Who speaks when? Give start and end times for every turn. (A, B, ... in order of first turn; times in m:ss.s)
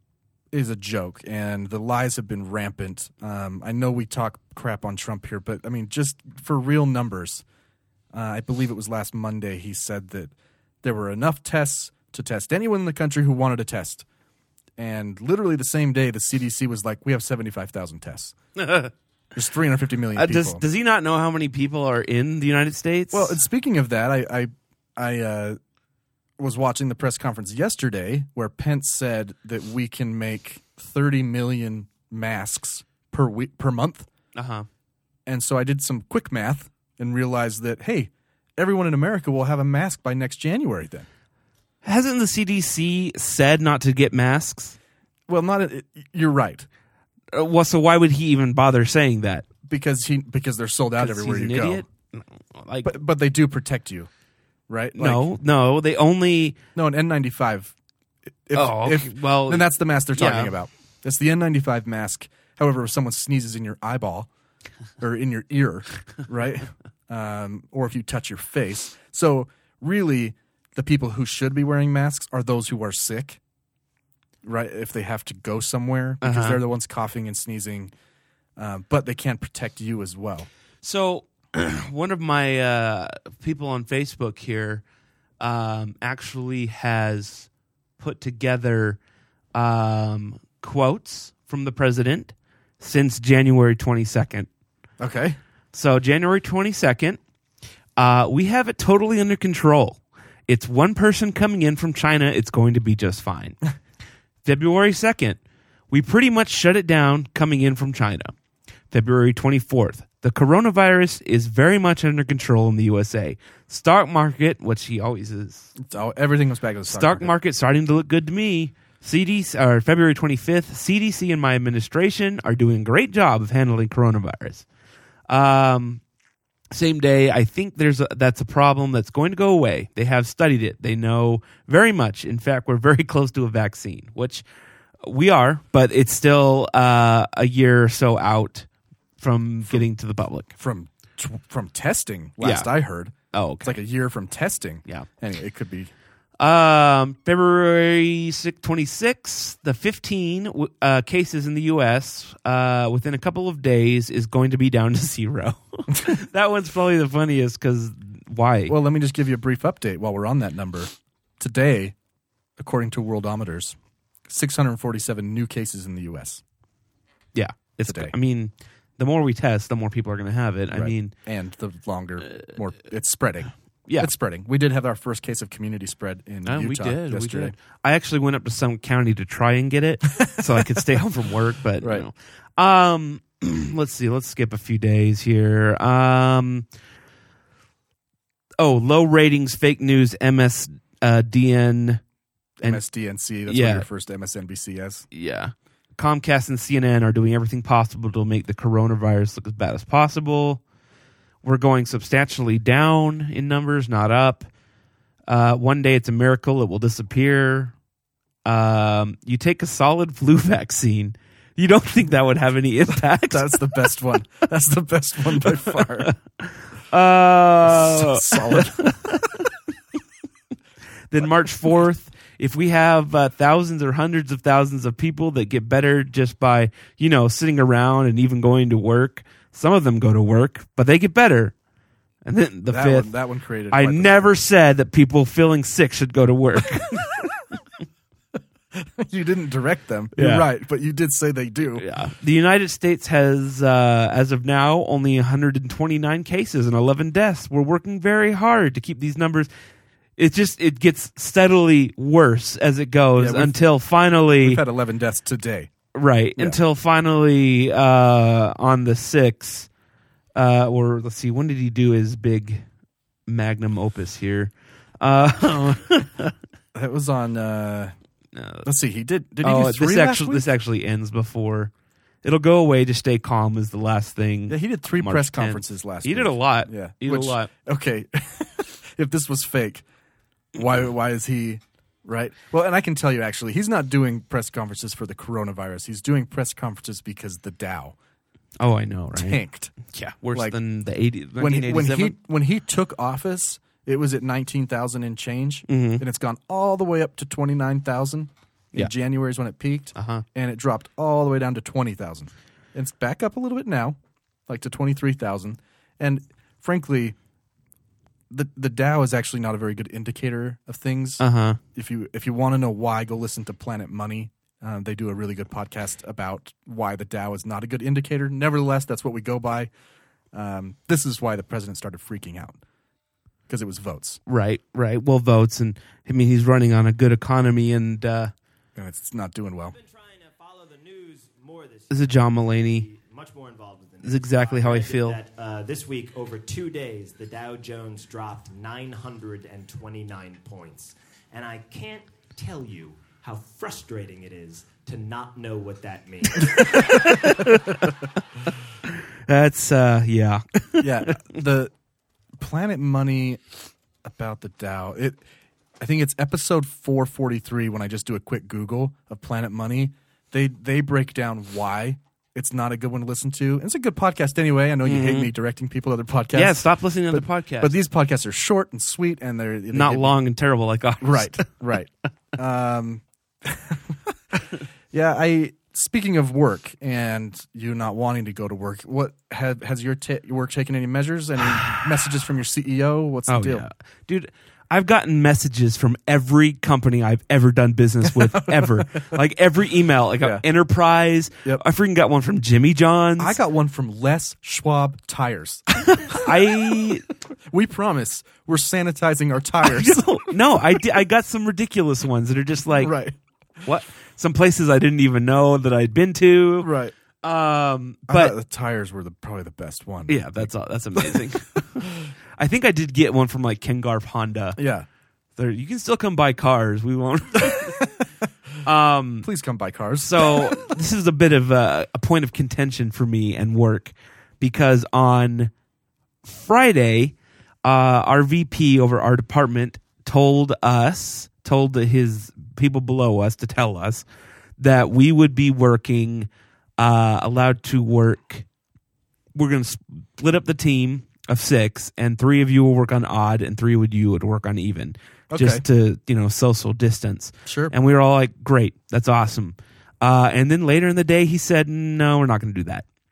0:00.5-0:07.4 A
0:08.1-0:14.0 A
0:14.8-0:18.3 A
0:18.6-0:18.9 B
0:19.3-0:20.6 A
0:20.1-0:23.4 B
0:23.1-0:25.6 A
0:26.4-0:34.1 A
0:34.3-0:34.7 B
0:35.2-0:41.1 A
0:41.8-0:44.8 B
0:45.3-0:46.7 A
0:47.3-0:49.4 B
0:49.7-0:51.8 A
0:51.0-0:52.9 B
0:52.8-0:54.1 A
0:54.7-0:55.3 A
0:55.0-0:56.6 B
0:56.7-0:57.7 A
0:58.4-1:04.3 A
0:58.5-1:00.5 B
1:05.0-1:13.4 A
1:14.4-1:17.9 A
1:16.2-1:16.6 B
1:18.6-1:20.5 A
1:20.8-1:24.8 B
1:25.4-1:27.5 B
1:28.0-1:29.0 B
1:29.5-1:34.5 B
1:35.0-1:35.4 A
1:35.7-1:37.2 B
1:38.0-1:43.6 B
1:44.4-1:45.4 B
1:45.9-1:48.3 B
1:48.9-1:55.7 B
1:55.8-1:57.3 A
1:56.9-2:04.6 B
2:05.3-2:06.0 B
2:06.7-2:14.4 B
2:15.0-2:18.7 B
2:19.2-2:20.5 B
2:20.6-2:25.9 A
2:22.4-2:22.7 B
2:23.3-2:23.8 B
2:26.4-2:38.7 B
2:38.7-2:41.9 A
2:42.6-2:43.8 A
2:44.3-2:46.4 A
2:47.3-2:51.1 B
2:47.8-2:48.1 A
2:50.7-2:57.5 A
2:56.4-3:06.6 B
3:01.8-3:02.1 A
3:08.6-3:12.0 B
3:12.6-3:15.0 A
3:13.5-3:13.8 B
3:15.1-3:20.6 B
3:21.4-3:24.5 B
3:25.3-3:27.7 B
3:28.4-3:33.6 B
3:33.0-3:36.1 A
3:35.7-3:39.4 B
3:37.6-3:39.2 A
3:41.1-3:51.5 B
3:52.2-3:53.1 B
3:52.7-3:54.3 A
3:53.7-3:57.2 B
3:58.7-4:01.8 A
4:00.1-4:00.4 B
4:01.8-4:09.5 B
4:10.2-4:14.6 B
4:13.2-4:13.6 A
4:14.4-4:15.7 A
4:15.9-4:19.7 B
4:20.3-4:22.6 B
4:23.3-4:26.3 B
4:26.7-4:27.9 A
4:28.3-4:28.7 B
4:28.6-4:30.4 A
4:29.4-4:31.7 B
4:32.2-4:37.5 B
4:34.5-4:39.8 A
4:40.5-4:48.0 A
4:48.6-4:52.2 B
4:49.1-4:49.8 A
4:51.4-5:04.0 A
4:55.7-4:56.0 B
5:00.0-5:00.2 B
5:04.5-5:07.2 A
5:08.3-5:19.7 A
5:11.2-5:11.6 B
5:20.3-5:22.6 A
5:23.5-5:24.2 A
5:24.3-5:28.3 B
5:28.8-5:29.8 A
5:29.7-5:47.1 C
5:31.9-5:32.8 B
5:34.0-5:35.2 B
5:46.6-5:47.8 B
5:49.3-5:51.3 B
5:50.8-5:51.7 A
5:52.4-5:53.4 A
5:54.0-5:55.2 A
5:55.8-6:10.2 A
6:04.8-6:05.3 B
6:06.3-6:07.7 B
6:09.7-6:11.5 B
6:11.0-6:14.4 A
6:14.9-6:23.6 A
6:23.3-6:33.4 B
6:28.2-6:28.8 A
6:33.2-6:36.8 A
6:35.8-6:37.0 B
6:37.5-6:40.2 A
6:39.6-6:42.9 B
6:42.7-6:43.2 A
6:43.6-6:46.7 B
6:46.6-6:46.9 A
6:47.2-6:48.4 B
6:48.1-6:51.3 A
6:50.1-6:54.6 B
6:54.6-6:54.9 A
6:55.4-6:57.8 B
6:58.6-6:59.3 B
6:59.2-7:00.7 A
7:00.0-7:05.5 B
7:06.2-7:14.0 B
7:14.6-7:18.4 B
7:19.3-7:32.8 B
7:25.3-7:25.6 A
7:27.4-7:27.7 A